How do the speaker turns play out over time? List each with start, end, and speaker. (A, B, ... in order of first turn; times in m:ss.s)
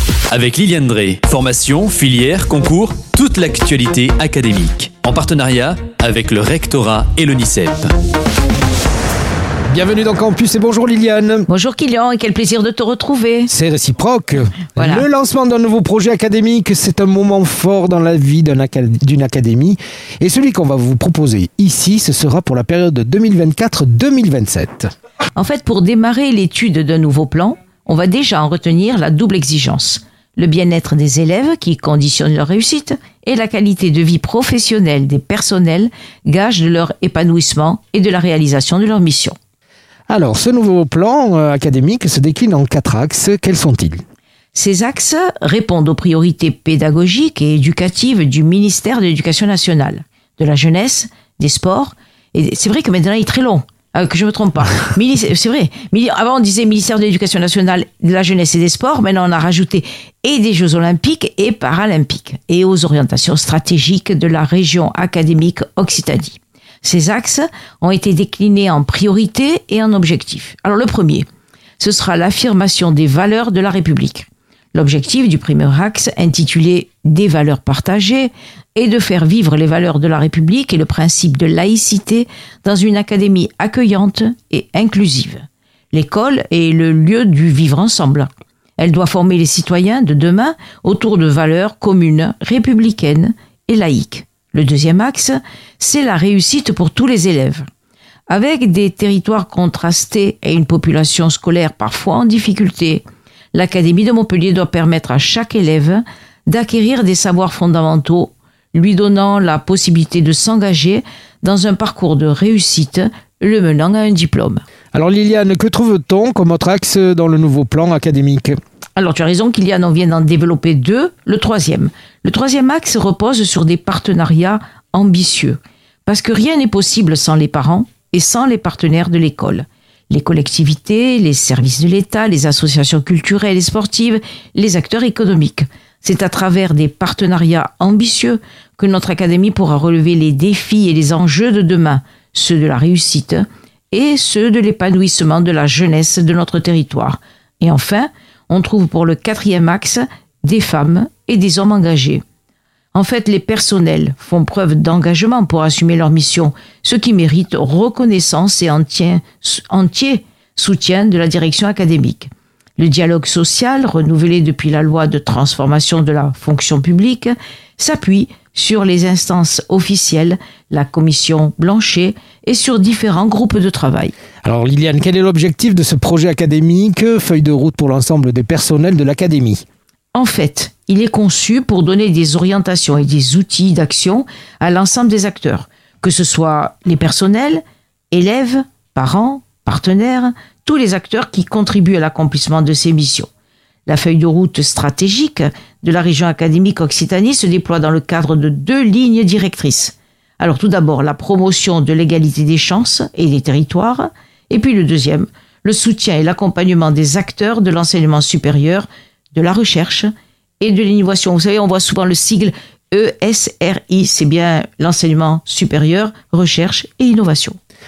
0:00.3-0:07.9 A
0:09.7-0:11.5 B
0:11.5-0:13.5 C
0:13.5-0:24.9 B
0:14.8-0:15.1 C
0:25.3-0:39.3 C
0:40.1-0:44.0 B
0:44.5-1:11.2 C
1:11.8-1:37.6 C
1:38.3-1:54.6 C
1:54.9-1:58.6 B
1:59.0-2:32.2 C
2:32.9-2:54.1 C
2:54.4-2:59.6 B
3:00.1-3:13.3 C
3:13.8-3:37.6 C